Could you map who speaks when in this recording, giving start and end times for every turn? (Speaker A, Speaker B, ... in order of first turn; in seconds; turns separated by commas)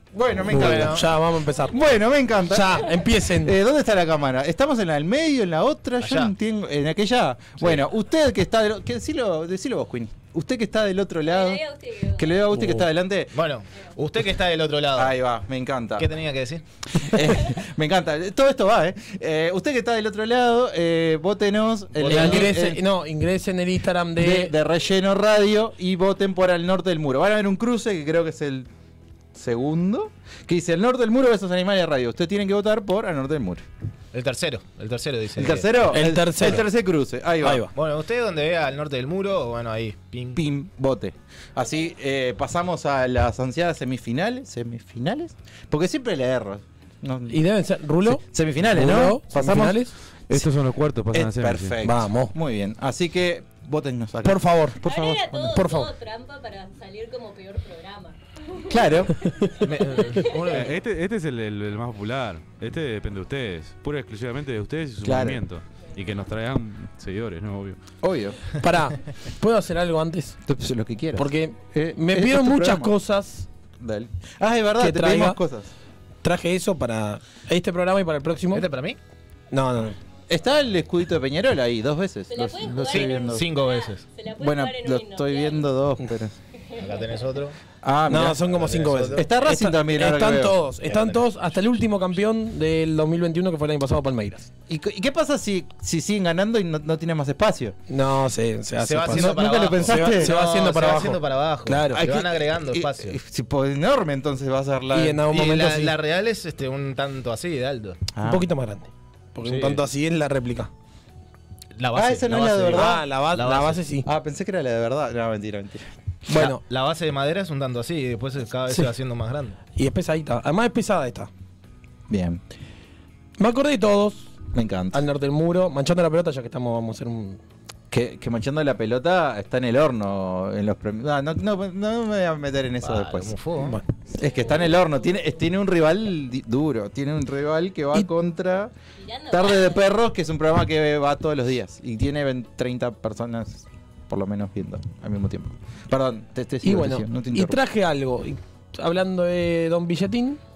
Speaker A: 0.1-1.1, Speaker B: 0.5-1.8, Speaker C: 0.6-1.0, Speaker A: 1.6-11.6, Speaker B: 2.5-3.6, Speaker C: 6.0-6.3, Speaker D: 11.2-12.4, Speaker A: 12.1-13.3, Speaker B: 12.5-12.8, Speaker C: 13.3-15.2, Speaker A: 14.9-16.1, Speaker C: 16.0-16.6, Speaker A: 16.9-22.8, Speaker C: 21.9-22.6, Speaker B: 22.1-24.5, Speaker A: 24.2-28.7, Speaker A: 29.3-33.6, Speaker C: 34.1-35.7, Speaker A: 35.4-37.7, Speaker B: 35.9-36.6, Speaker B: 37.4-37.7, Speaker C: 37.7-40.4, Speaker A: 40.4-47.4, Speaker B: 47.3-49.9, Speaker A: 48.0-50.5, Speaker E: 50.3-51.8, Speaker A: 51.1-55.7, Speaker B: 51.8-52.3, Speaker B: 54.2-54.8, Speaker D: 54.8-60.6, Speaker B: 55.5-55.9, Speaker A: 58.7-59.2, Speaker C: 59.6-60.7, Speaker E: 60.5-67.8, Speaker A: 65.0-65.4, Speaker A: 68.0-68.5, Speaker B: 68.6-70.4, Speaker A: 70.5-72.9, Speaker B: 71.2-73.5, Speaker A: 73.8-75.7, Speaker B: 74.8-75.4, Speaker B: 76.2-78.6, Speaker C: 78.5-79.0, Speaker B: 79.5-80.0, Speaker A: 80.3-83.5, Speaker D: 82.3-85.7, Speaker C: 82.8-84.0, Speaker A: 84.3-86.3, Speaker D: 86.6-87.2, Speaker C: 86.8-87.6, Speaker A: 87.8-88.5, Speaker B: 88.1-94.5, Speaker C: 88.4-89.3, Speaker A: 89.1-91.1, Speaker A: 94.7-97.8, Speaker B: 97.9-102.0, Speaker C: 98.8-103.2, Speaker A: 99.1-100.3, Speaker A: 101.9-105.2, Speaker B: 104.9-105.9, Speaker C: 105.3-108.0, Speaker A: 108.1-108.5, Speaker B: 108.2-110.7, Speaker C: 109.4-109.8, Speaker C: 111.7-113.8, Speaker A: 111.9-113.0, Speaker B: 112.7-114.1, Speaker A: 114.0-115.9, Speaker B: 116.3-116.6, Speaker C: 116.3-119.6, Speaker B: 119.8-121.3, Speaker A: 122.1-122.4, Speaker B: 123.4-124.3, Speaker A: 124.5-125.0, Speaker B: 124.9-127.4, Speaker A: 127.9-133.4, Speaker C: 132.8-133.8, Speaker A: 134.1-138.7, Speaker D: 139.0-139.9, Speaker A: 139.3-147.6, Speaker B: 146.6-150.4